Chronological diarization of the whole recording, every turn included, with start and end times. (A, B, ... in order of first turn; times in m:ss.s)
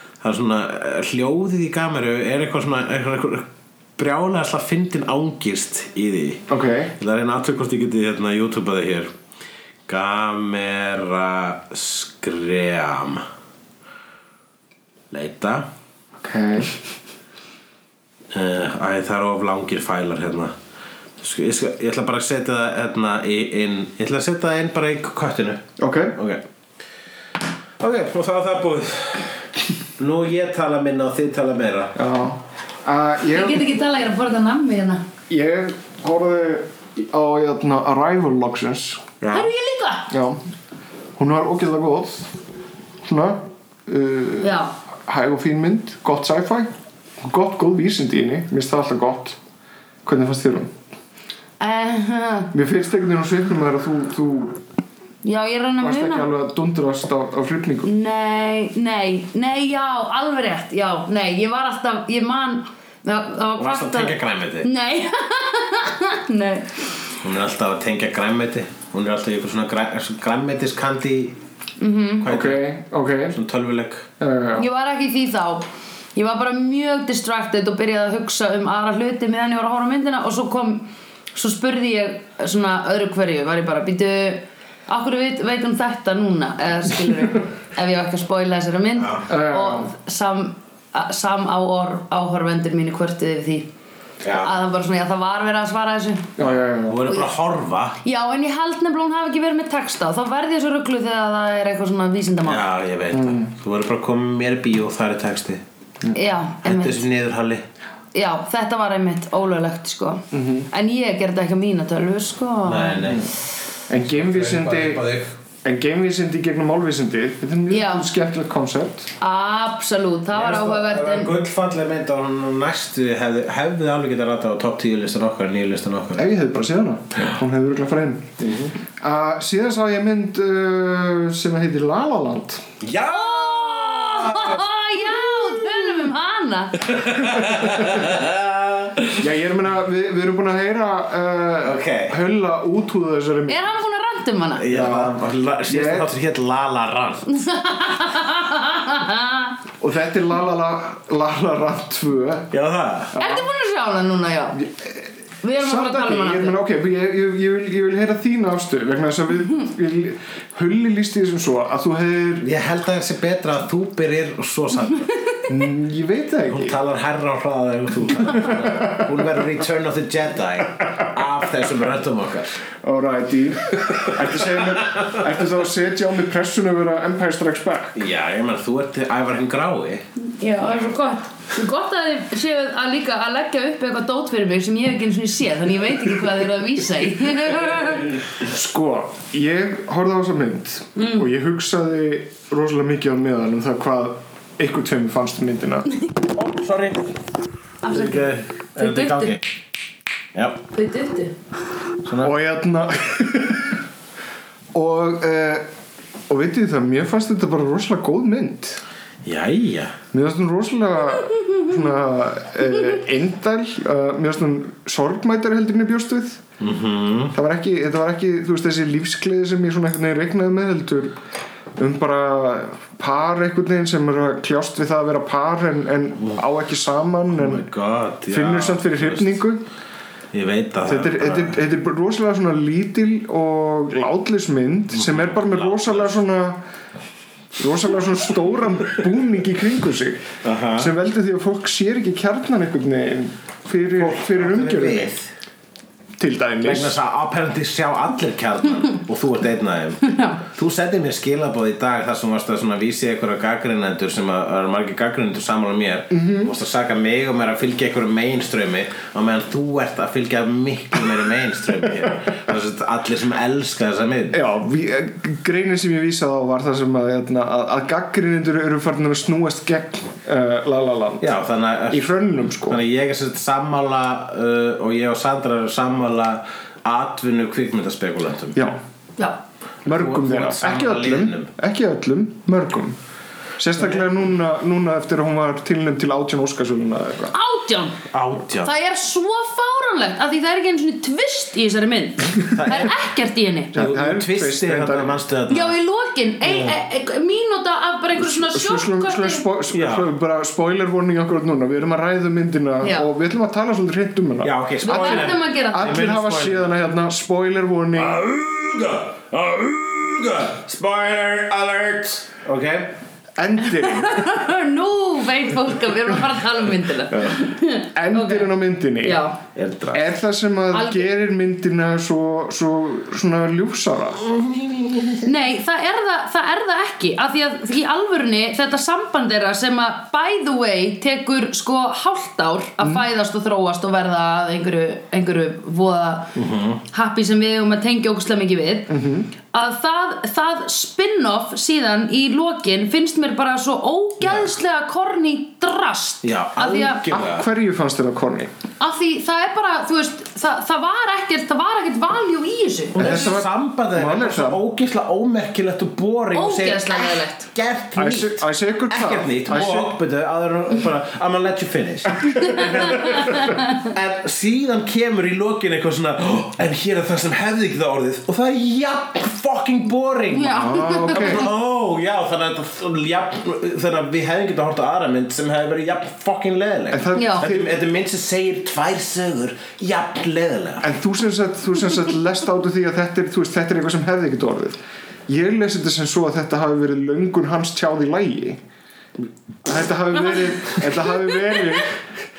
0:00.2-0:09.1 A
0:06.5-0:06.9 B
0:09.9-0:13.2 A
0:15.1-0:15.7 A
0:16.2-0:16.7 B
0:18.3-0:20.5 A
0:21.2-0:26.4 A
0:25.8-0:26.2 B
0:27.8-0:29.4 A
0:30.0-0:31.9 A
0:31.9-0:33.7 B
0:33.3-0:35.0 C
0:35.3-0:39.1 B
0:39.2-0:39.5 A
0:39.3-0:40.1 C
0:40.1-0:40.4 B
0:41.2-0:42.3 B
0:43.0-0:49.4 B
0:44.4-0:44.7 C
0:50.0-0:50.7 B
0:51.6-0:52.5 C
0:52.5-0:54.6 B
0:55.2-0:56.3 C
0:55.8-0:57.9 B
0:57.8-1:06.8 C
1:03.6-1:04.7 A
1:07.2-1:11.4 A
1:11.8-1:12.2 C
1:12.2-1:12.6 A
1:12.3-1:13.4 B
1:13.3-1:14.1 A
1:14.2-1:14.6 B
1:14.6-1:33.7 C
1:29.0-1:29.3 A
1:29.3-1:29.9 B
1:34.2-1:34.5 A
1:34.3-1:36.3 C
1:36.4-1:37.0 B
1:36.4-1:38.0 A
1:38.0-1:42.6 C
1:42.4-1:45.6 A
1:43.1-1:43.5 B
1:46.1-1:47.0 C
1:46.6-1:47.6 A
1:48.1-1:53.2 C
1:50.3-1:50.7 B
1:52.6-1:53.3 A
1:53.9-1:55.0 B
1:54.0-1:55.3 A
1:55.6-1:59.1 B
1:57.7-1:58.1 C
1:59.2-2:01.3 C
2:00.3-2:06.3 A
2:06.2-2:12.6 B
2:08.4-2:08.7 A
2:12.8-2:15.1 A
2:13.1-2:17.0 C
2:16.8-2:19.2 A
2:19.2-2:23.7 B
2:21.6-2:22.2 A
2:23.5-2:24.6 C
2:24.6-2:27.2 A
2:24.7-2:26.1 B
2:27.3-2:29.5 C
2:29.8-2:32.5 B
2:32.5-2:33.2 A
2:33.1-2:33.4 B
2:33.2-2:34.6 C
2:34.6-2:35.0 B
2:35.4-2:36.6 C
2:35.6-2:42.5 B
2:42.4-2:45.1 A
2:45.5-2:46.8 B
2:46.5-2:52.6 A
2:48.4-2:49.0 B
2:52.8-2:58.0 B
2:54.8-2:55.1 A
2:57.9-3:00.0 A
3:00.2-3:08.1 C
3:08.4-3:15.9 B
3:11.0-3:11.3 C
3:16.3-3:17.1 A
3:17.8-3:19.4 C
3:17.9-3:19.4 A
3:20.3-3:20.6 A
3:20.7-3:21.3 C
3:22.0-3:22.3 A
3:22.2-3:23.8 B
3:24.7-3:25.6 B
3:26.3-3:28.8 B
3:29.2-3:30.0 A
3:30.1-3:36.4 B
3:36.6-3:37.3 A
3:37.3-3:41.2 B
3:41.8-3:47.6 B
3:47.3-3:49.4 A
3:48.3-3:49.6 B
3:50.3-3:51.6 A
3:50.8-3:56.6 B
3:54.9-3:56.2 A
3:57.6-4:00.2 B
4:00.4-4:00.9 A
4:00.7-4:05.1 B
4:03.9-4:05.3 A
4:06.2-4:07.0 B
4:06.6-4:24.4 A
4:10.1-4:10.3 C
4:16.1-4:16.5 B
4:24.3-4:31.3 B
4:31.2-4:38.6 A
4:31.9-4:32.8 B
4:39.8-4:43.0 B
4:39.9-4:41.5 A
4:43.6-4:47.3 B
4:43.8-4:44.0 A
4:47.3-4:48.0 C
4:48.1-4:48.7 A
4:48.6-4:53.7 C
4:52.4-4:52.9 A
4:53.7-4:55.2 B
4:53.7-4:55.7 A
4:55.5-4:59.4 C
4:56.4-4:56.8 A
4:58.2-5:08.2 B
4:59.7-5:00.1 A
5:02.8-5:03.1 C
5:04.4-5:06.7 A
5:04.8-5:06.0 C
5:08.0-5:12.9 A
5:13.4-5:14.4 B
5:13.8-5:19.4 C
5:17.9-5:19.2 B
5:19.5-5:20.1 A
5:19.9-5:24.2 B
5:20.7-5:21.0 C
5:24.2-5:25.2 A
5:25.2-5:36.3 C
5:36.3-5:36.8 A
5:36.8-5:38.9 C
5:38.9-5:39.3 B
5:39.5-5:47.0 C
5:46.2-5:47.4 A
5:47.1-5:48.5 B
5:48.8-5:53.3 C
5:52.9-6:20.9 A
5:53.0-5:54.6 B
5:56.3-5:57.5 C
5:58.0-5:59.9 B
6:02.6-6:03.6 C
6:10.3-6:11.4 C
6:10.5-6:11.4 B
6:16.9-6:17.8 B
6:17.1-6:17.4 C
6:20.8-6:28.6 B
6:29.6-6:32.0 B